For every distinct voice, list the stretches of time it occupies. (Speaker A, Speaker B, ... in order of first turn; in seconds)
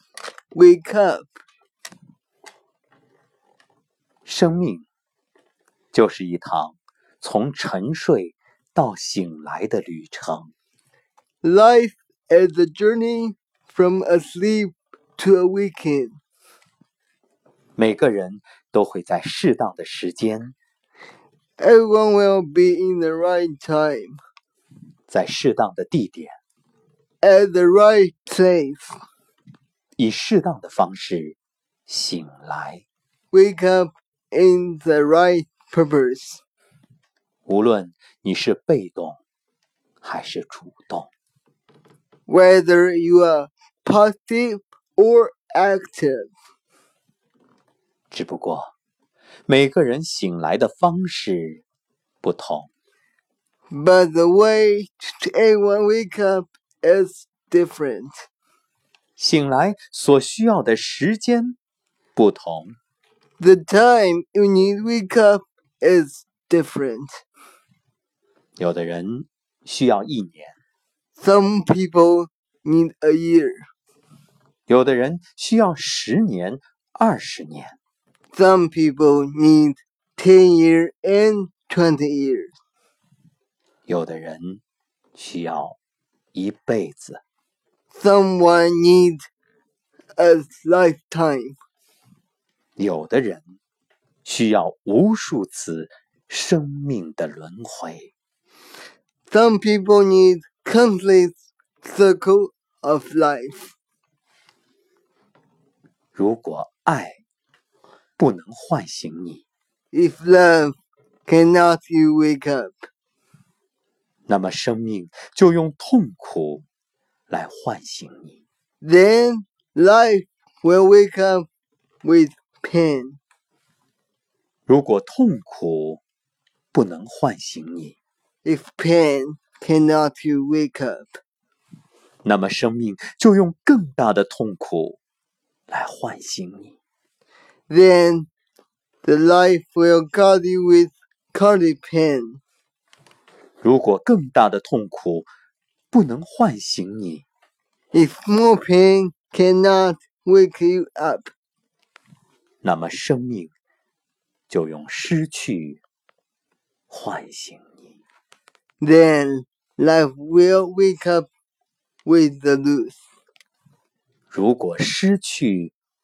Speaker A: 0.5-1.3, 11.4-16.2, 21.6-24.2, 27.2-29.0, 33.3-36.4, 42.3-46.3, 53.7-58.1, 63.4-67.2, 71.2-73.7, 78.3-82.5, 87.9-89.2, 90.2-91.5, 99.3-103.7, 109.9-110.8, 111.3-112.8, 118.8-121.5, 122.0-123.2, 128.4-131.2, 137.7-138.3, 139.0-142.4, 147.9-151.3, 158.8-161.3, 162.0-162.9
Speaker B: 4.2-4.9, 5.9-10.5, 17.8-20.5, 25.1-26.4, 30.0-31.4, 31.9-32.8, 37.5-39.2, 40.0-41.1, 48.1-48.7, 49.5-51.6, 52.2-52.7, 59.2-61.6, 62.1-62.8, 68.6-70.5, 74.7-77.7, 83.9-84.6, 85.2-85.8, 86.3-87.2, 92.8-93.6, 94.2-98.1, 106.1-107.2, 108.2-109.4, 114.3-116.6, 117.3-118.4, 124.7-126.0, 126.7-127.9, 132.2-135.0, 135.7-136.7, 143.6-145.3, 145.9-147.2, 152.6-153.5, 154.5-155.8, 156.9-157.8, 164.3-165.7